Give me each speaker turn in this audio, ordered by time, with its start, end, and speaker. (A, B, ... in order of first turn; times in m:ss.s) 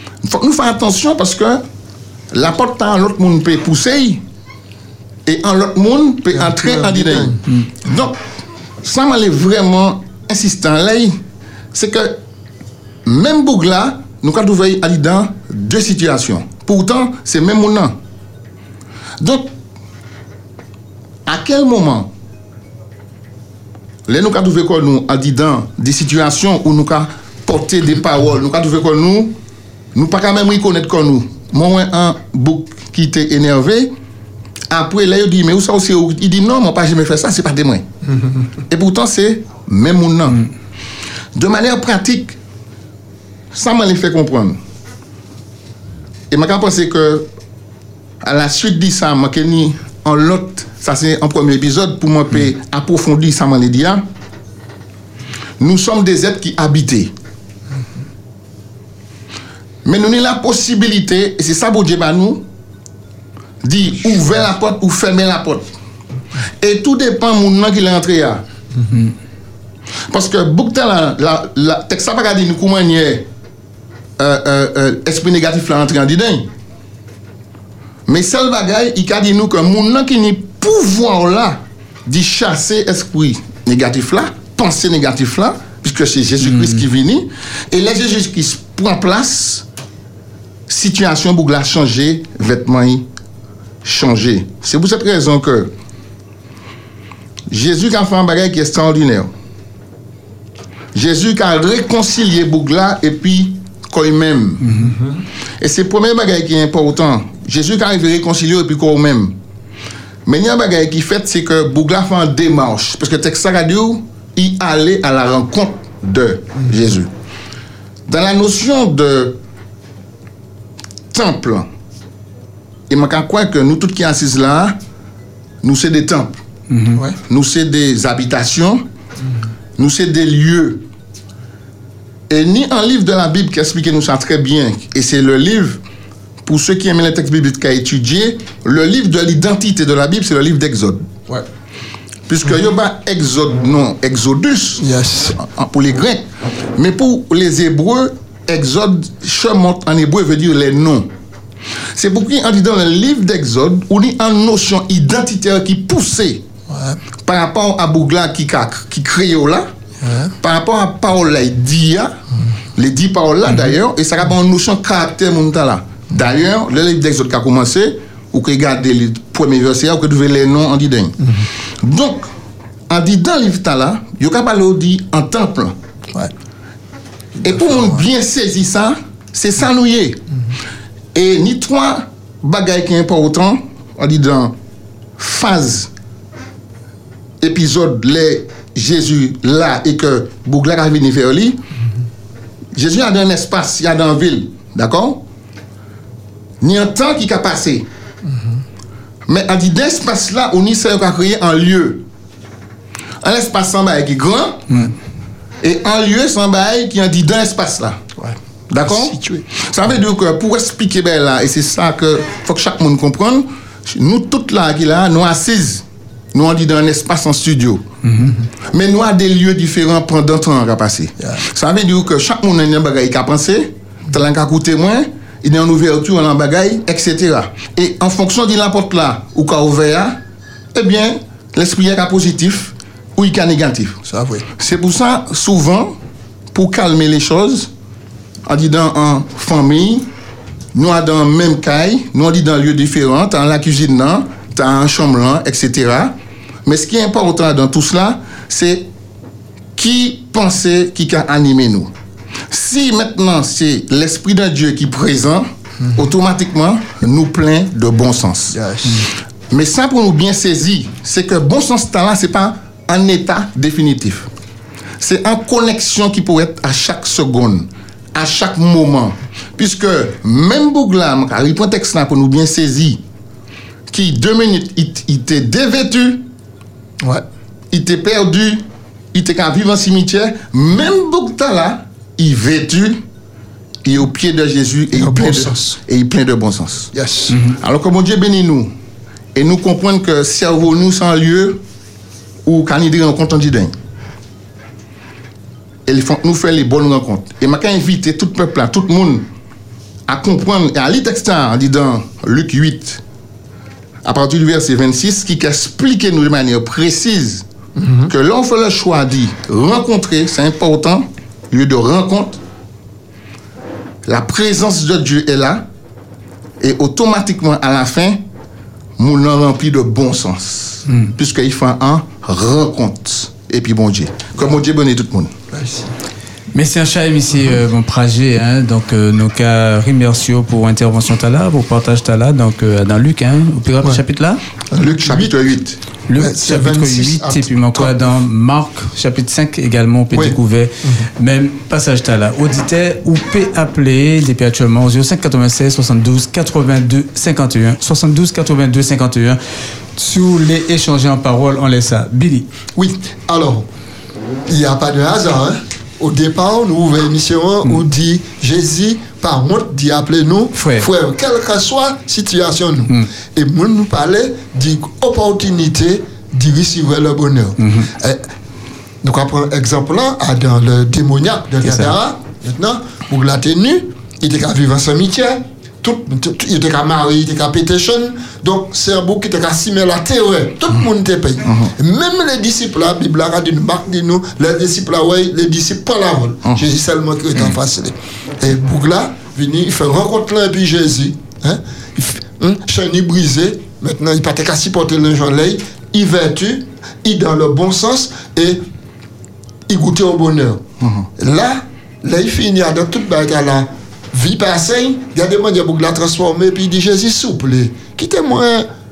0:00.2-0:01.6 A
0:02.3-0:04.2 A
0:05.2-0:08.2 A
0:06.3-0:07.4 B
0:08.8-0:11.2 A
0:11.7-0:12.2 A
0:13.0-0:18.0 A
0:19.2-0:19.5 A
0:21.2-0:22.1 A
0:24.1-0:29.4 A
0:29.9-0:33.9 A
0:34.7-0:37.8 A
0:38.7-0:40.5 A
0:41.3-0:42.4 A
0:43.5-0:44.6 A
0:46.3-0:47.3 A
0:48.2-0:54.0 A
0:55.6-0:57.1 A
0:59.8-1:02.4 A
1:03.6-1:05.7 A
1:06.6-1:08.4 A
1:10.1-1:13.2 A
1:14.2-1:16.5 A
1:18.1-1:29.6 A
1:30.7-1:33.0 A
1:33.8-1:35.7 A
1:37.5-1:39.3 A
1:40.9-1:44.6 A
1:44.6-1:44.9 C
1:44.7-1:45.2 B
1:45.6-1:49.4 A
1:50.2-1:57.1 A
1:58.1-1:59.4 A
2:01.1-2:01.7 A
2:02.9-2:04.8 A
2:05.6-2:06.4 A
2:06.7-2:07.0 C
2:07.3-2:08.8 A
2:09.8-2:10.8 A
2:12.3-2:15.8 A
2:16.4-2:21.0 A
2:22.3-2:31.1 A
2:24.8-2:25.4 B
2:31.9-2:36.4 A
2:36.7-2:37.0 B
2:37.2-2:39.7 A
2:40.0-2:40.3 B
2:40.4-2:42.2 A
2:42.8-2:51.2 A
2:51.2-2:51.5 B
2:51.8-2:52.3 A
2:52.9-2:55.8 A
2:57.4-2:58.0 B
2:57.4-3:00.2 A
3:01.1-3:04.6 A
3:05.2-3:05.9 A
3:07.4-3:11.6 A
3:12.8-3:15.2 A
3:16.6-3:17.8 A
3:18.2-3:18.6 B
3:19.3-3:22.0 A
3:23.2-3:24.7 A
3:25.6-3:28.0 A
3:28.2-3:29.5 B
3:28.7-3:37.8 A
3:38.0-3:38.3 C
3:38.2-3:38.5 B
3:38.7-3:50.2 A
3:50.7-3:54.0 A
3:54.0-3:54.5 B
3:54.6-3:56.0 A
3:56.5-3:57.7 A
3:58.4-4:00.0 A
4:00.7-4:08.9 A
4:09.8-4:11.9 A
4:12.5-4:18.6 A
4:18.5-4:19.1 B
4:19.5-4:24.3 A
4:25.0-4:33.0 A
4:33.9-4:36.2 A
4:37.7-4:43.0 A
4:43.8-4:46.9 A
4:44.9-4:45.8 B
4:46.9-4:47.4 B
4:47.3-4:47.6 C
4:47.6-4:48.7 A
4:49.3-4:51.6 A
4:52.4-4:53.7 A
4:55.8-4:59.3 A
5:00.1-5:03.0 A
5:04.0-5:07.4 A
5:07.8-5:08.1 B
5:08.1-5:12.4 A
5:14.0-5:15.7 A
5:16.6-5:18.2 A
5:19.0-5:25.3 A
5:25.5-5:25.9 B
5:26.5-5:34.4 C
5:34.7-5:35.4 B
5:34.8-5:35.8 A
5:36.1-5:49.4 C
5:36.2-5:38.0 B
5:40.1-5:41.1 B
5:50.0-5:52.5 C
5:52.8-5:53.7 B
5:54.5-6:08.3 B
6:00.5-6:00.9 C
6:07.6-6:07.9 C
6:09.0-6:38.6 B
6:11.6-6:11.9 C
6:21.4-6:21.7 A
6:39.7-6:40.6 B
6:40.8-6:41.1 A
6:41.2-6:48.7 B